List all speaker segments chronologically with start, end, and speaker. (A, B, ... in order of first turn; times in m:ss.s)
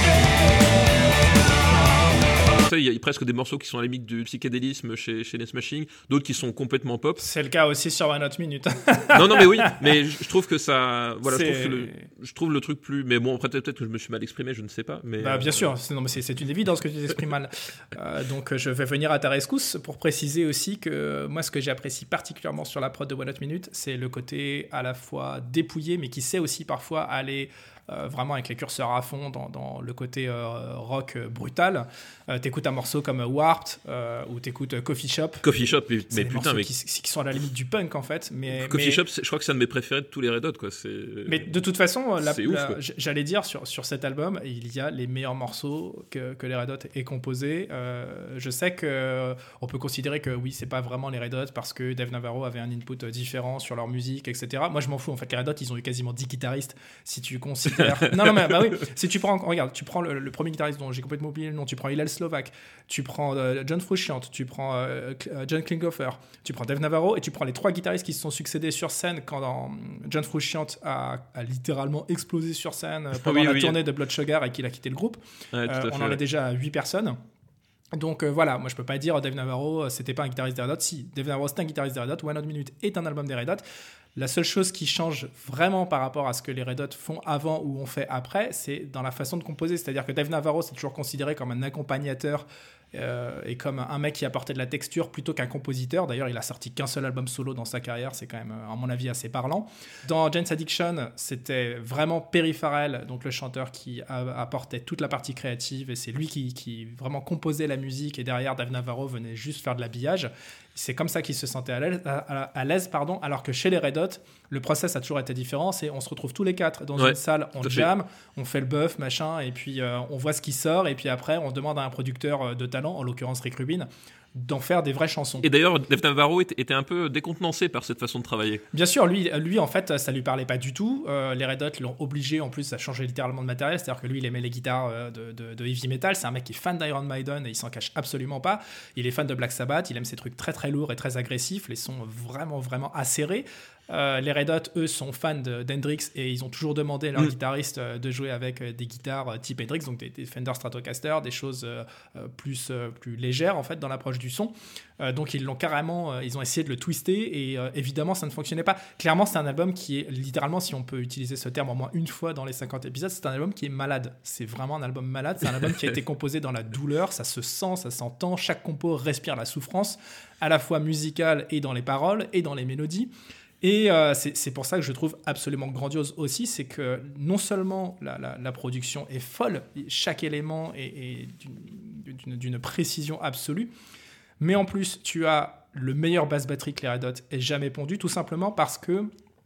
0:02.4-0:07.2 A
0:07.2-0:09.9 B
0:09.1-0:15.7 A
0:11.2-0:12.1 B
0:15.2-0:35.4 B
0:35.4-0:36.7 A
0:36.1-0:39.0 B
0:38.5-0:41.6 A
0:41.2-1:17.2 B
0:42.2-0:42.8 A
0:57.8-0:58.7 A
1:13.2-1:13.8 A
1:15.5-1:16.2 A
1:17.9-1:23.6 B
1:24.2-2:05.5 B
1:57.0-1:57.9 A
2:05.4-2:08.6 A
2:08.7-3:03.7 B
3:04.4-3:09.1 B